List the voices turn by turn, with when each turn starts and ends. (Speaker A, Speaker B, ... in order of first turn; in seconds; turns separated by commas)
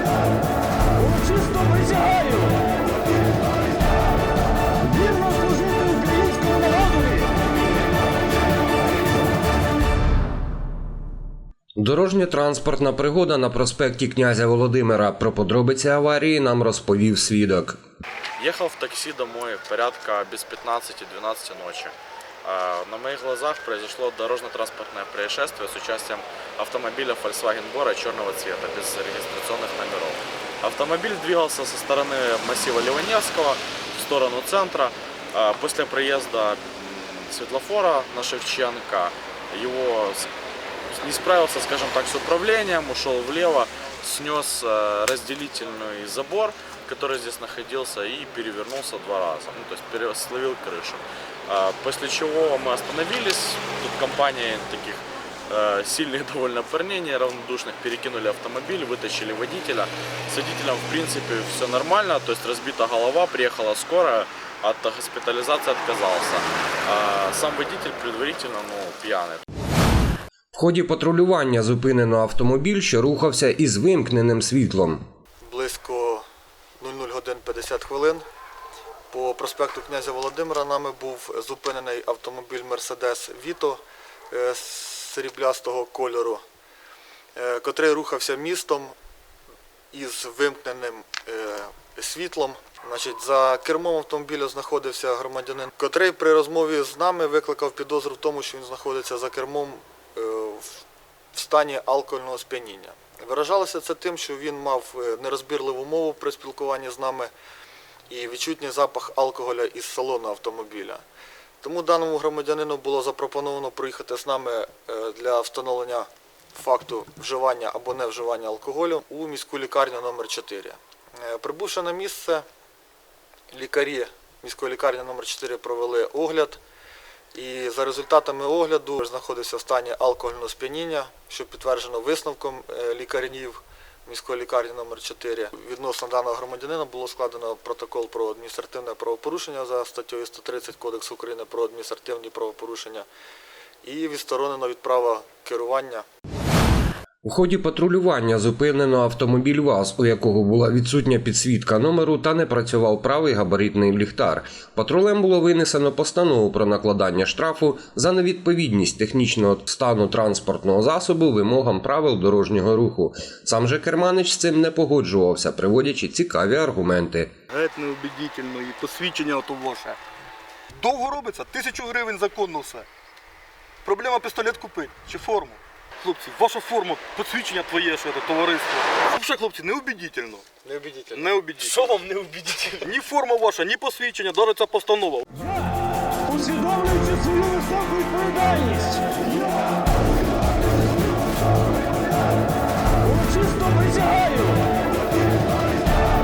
Speaker A: 1.0-2.5, Speaker A: 4.9-7.3, Speaker B: 11.8-17.8, Speaker C: 18.4-40.3, Speaker C: 40.9-69.4, Speaker B: 70.5-75.0, Speaker D: 75.4-76.2, Speaker D: 76.8-78.2, Speaker D: 79.1-86.4, Speaker D: 87.3-88.9, Speaker D: 89.9-107.3, Speaker D: 108.1-111.0, Speaker D: 111.6-122.4, Speaker D: 123.5-126.6, Speaker D: 127.3-143.1, Speaker D: 143.8-146.0, Speaker B: 147.2-167.3, Speaker E: 167.5-170.0, Speaker E: 170.8-172.9, Speaker E: 173.8-180.5, Speaker E: 181.1-182.1, Speaker C: 182.1-182.6, Speaker E: 182.8-185.2, Speaker A: 186.2-189.1, Speaker A: 193.1-194.6